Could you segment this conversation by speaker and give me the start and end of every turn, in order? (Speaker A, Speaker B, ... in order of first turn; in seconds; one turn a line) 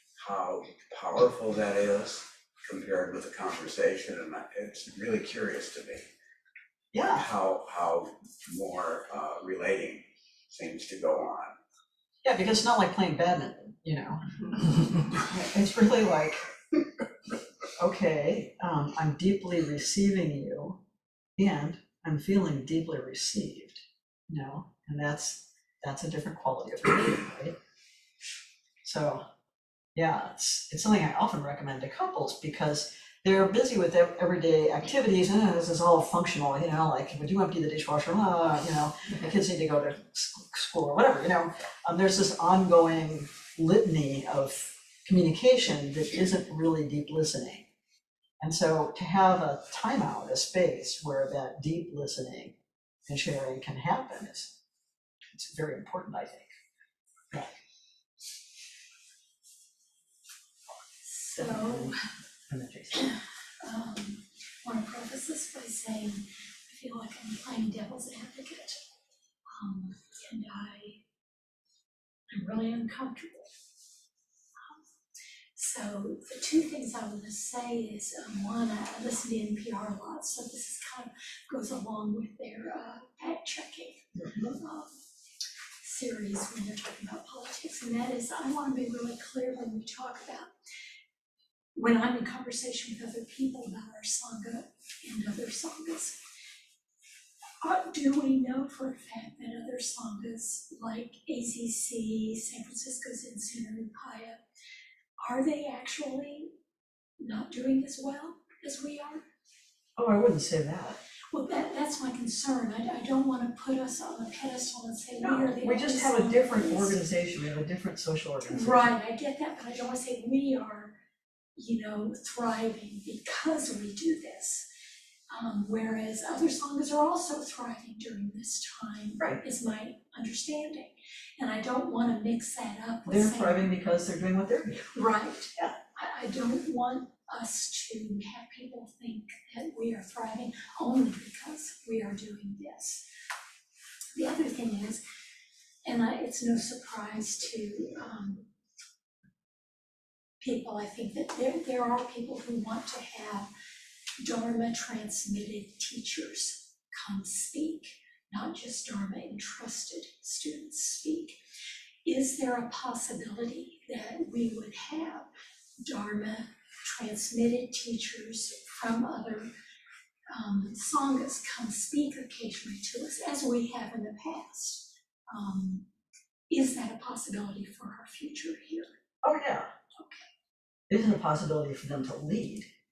Speaker A: 0.2-6.1
Speaker B: 6.9-7.3
Speaker A: 7.1-11.5
Speaker B: 12.2-16.4
Speaker B: 17.8-20.8
Speaker B: 21.4-27.5
Speaker B: 28.8-29.2
Speaker B: 29.9-47.6
Speaker B: 48.4-52.5
Speaker B: 53.1-54.5
Speaker B: 55.3-56.5
Speaker C: 61.0-62.0
Speaker B: 61.3-61.9
Speaker B: 62.5-63.1
Speaker C: 62.9-68.8
Speaker C: 69.5-71.0
Speaker C: 72.3-73.5
Speaker C: 75.5-84.9
Speaker B: 84.1-84.6
Speaker C: 85.8-90.5
Speaker C: 91.7-96.2
Speaker C: 97.6-104.4
Speaker C: 105.2-106.5
Speaker C: 107.2-109.2
Speaker B: 110.0-111.0
Speaker C: 111.3-117.0
Speaker B: 115.2-118.9
Speaker C: 118.5-120.9
Speaker C: 121.5-124.7
Speaker C: 125.3-133.7
Speaker B: 133.1-134.9
Speaker C: 134.9-143.0
Speaker C: 144.1-145.0
Speaker C: 145.8-148.5
Speaker C: 150.4-153.5
Speaker C: 154.2-161.4
Speaker C: 162.0-165.3
Speaker C: 165.8-169.5
Speaker C: 170.3-175.8
Speaker C: 176.5-178.9
Speaker B: 179.2-179.7
Speaker C: 180.0-180.2
Speaker B: 180.9-182.7